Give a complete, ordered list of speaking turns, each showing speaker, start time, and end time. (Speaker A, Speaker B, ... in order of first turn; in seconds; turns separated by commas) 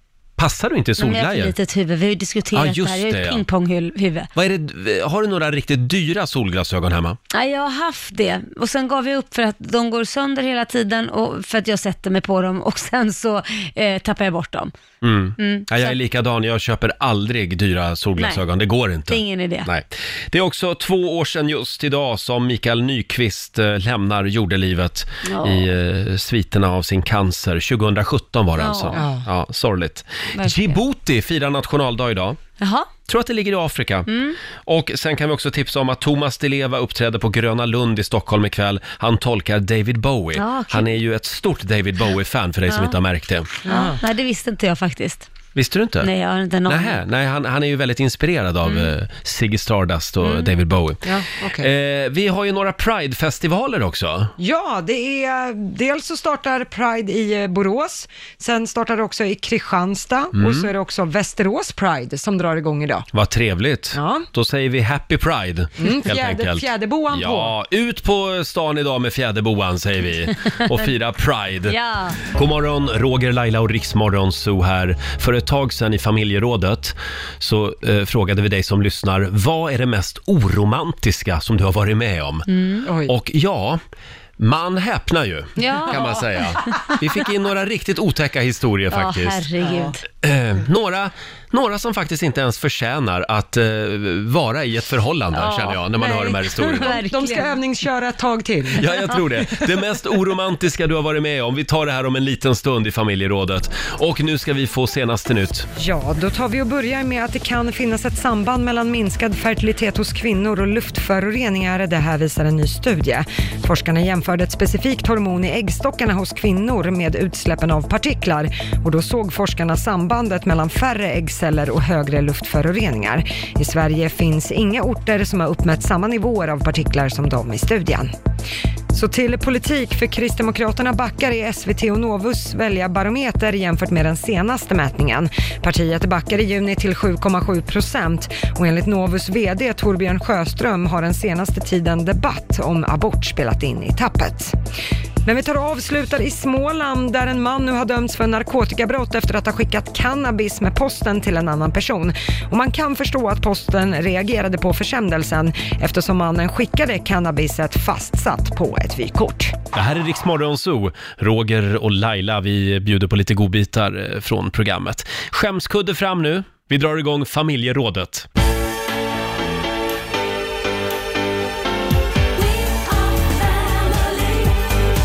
Speaker A: 0.4-1.5, Speaker B: 1.0-4.3, Speaker A: 2.5-3.4, Speaker A: 4.3-7.2, Speaker B: 7.3-14.7, Speaker A: 15.0-32.4, Speaker B: 15.4-16.0, Speaker B: 18.2-18.4, Speaker B: 19.1-19.7, Speaker B: 25.2-25.7, Speaker B: 28.6-29.1, Speaker C: 28.9-29.3, Speaker B: 30.4-30.8, Speaker B: 32.6-32.9, Speaker A: 33.1-34.1, Speaker B: 34.1-34.4, Speaker A: 34.6-43.6, Speaker B: 40.4-41.0, Speaker B: 42.7-43.0, Speaker C: 43.6-44.0, Speaker B: 43.7-45.3, Speaker A: 45.5-46.1, Speaker B: 46.0-47.0, Speaker A: 46.7-51.0, Speaker B: 48.6-48.9, Speaker B: 50.2-50.6, Speaker C: 51.0-51.7, Speaker A: 51.6-54.3, Speaker C: 54.4-63.1, Speaker A: 60.4-60.7, Speaker A: 63.1-82.5, Speaker C: 63.9-64.3, Speaker C: 65.8-67.5, Speaker B: 71.7-72.2, Speaker B: 82.5-82.9, Speaker C: 82.9-83.1, Speaker A: 83.0-83.8, Speaker A: 84.4-89.5, Speaker B: 85.6-86.9, Speaker B: 88.9-90.0, Speaker C: 89.6-89.9, Speaker A: 90.2-97.0, Speaker B: 95.3-97.6, Speaker C: 96.0-98.9, Speaker A: 98.8-105.7, Speaker C: 105.8-128.1, Speaker C: 128.9-144.6, Speaker C: 145.2-159.6, Speaker A: 159.7-168.3, Speaker B: 172.4-174.5